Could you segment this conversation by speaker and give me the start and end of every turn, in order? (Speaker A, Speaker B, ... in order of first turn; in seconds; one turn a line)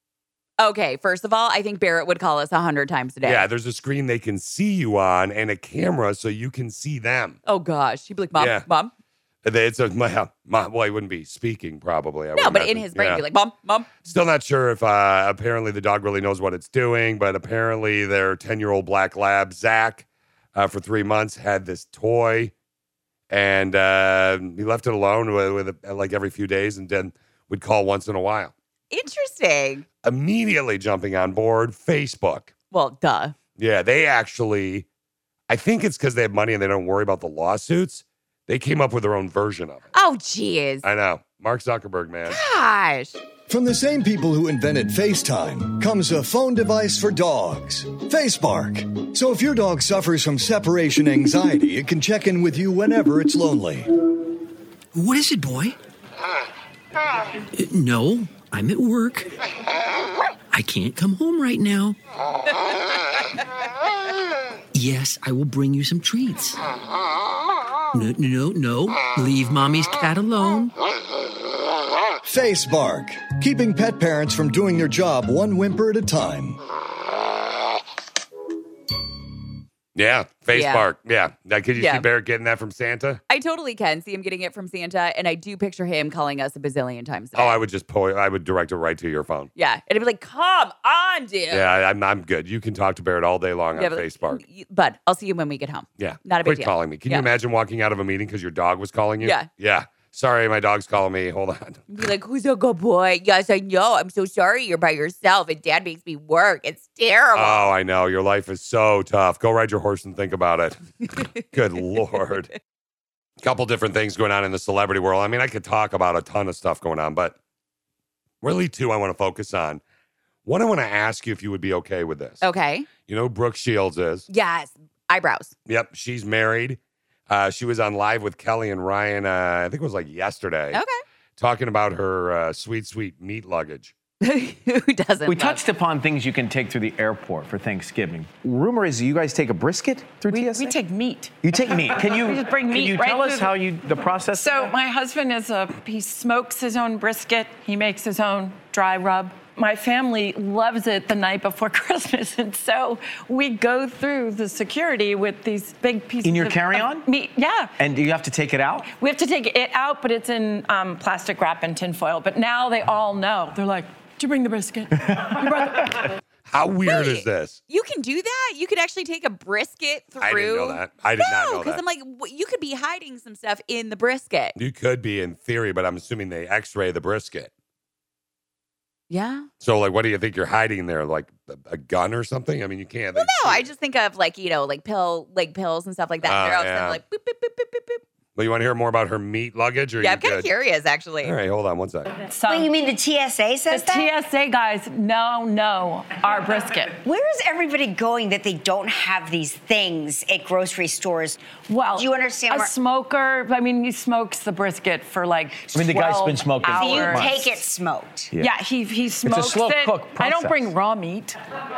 Speaker A: 0.6-3.5
Speaker B: 3.2-7.4
Speaker A: 7.5-8.9
Speaker B: 8.4-8.6
Speaker B: 9.4-13.2
Speaker A: 12.4-13.9
Speaker B: 14.0-22.5
Speaker B: 23.3-28.5
Speaker A: 28.9-29.8
Speaker B: 30.0-32.5
Speaker A: 32.7-33.3
Speaker B: 33.6-34.9
Speaker B: 35.5-39.9
Speaker A: 39.9-40.8
Speaker B: 40.8-42.4
Speaker A: 42.3-43.2
Speaker C: 43.5-53.9
Speaker D: 54.9-55.8
Speaker D: 57.5-59.3
Speaker D: 60.5-62.0
Speaker D: 64.7-66.6
Speaker D: 67.9-70.7
Speaker C: 72.2-76.6
Speaker B: 79.9-83.2
Speaker A: 80.5-80.8
Speaker A: 81.8-82.0
Speaker A: 83.3-87.6
Speaker B: 87.3-89.5
Speaker A: 89.5-91.7
Speaker B: 91.5-94.4
Speaker A: 93.7-97.3
Speaker B: 96.0-101.8
Speaker A: 99.2-99.5
Speaker A: 101.9-107.7
Speaker B: 107.3-112.5
Speaker B: 113.4-117.3
Speaker B: 118.4-119.8
Speaker B: 120.4-122.4
Speaker A: 122.4-122.9
Speaker B: 123.0-124.2
Speaker A: 124.3-125.5
Speaker B: 125.7-126.8
Speaker B: 127.3-130.8
Speaker B: 131.4-133.9
Speaker A: 134.2-135.6
Speaker E: 135.2-140.8
Speaker F: 140.3-141.3
Speaker E: 141.4-144.7
Speaker F: 141.9-143.6
Speaker F: 144.3-157.7
Speaker E: 156.2-157.1
Speaker E: 157.8-158.8
Speaker F: 158.8-166.0
Speaker B: 166.5-167.6
Speaker A: 166.8-174.6
Speaker B: 170.2-171.8
Speaker B: 174.6-177.5
Speaker A: 179.1-179.5
Speaker B: 179.6-183.7
Speaker A: 183.1-188.0
Speaker B: 186.2-187.0
Speaker B: 188.3-190.5
Speaker A: 190.0-191.3
Speaker B: 191.2-192.1
Speaker F: 192.2-192.7
Speaker G: 192.5-194.1
Speaker F: 193.7-196.9
Speaker G: 197.0-201.4
Speaker F: 201.6-207.4
Speaker G: 201.9-202.7
Speaker E: 205.7-207.5
Speaker G: 206.7-208.3
Speaker F: 208.4-211.3
Speaker E: 209.2-210.7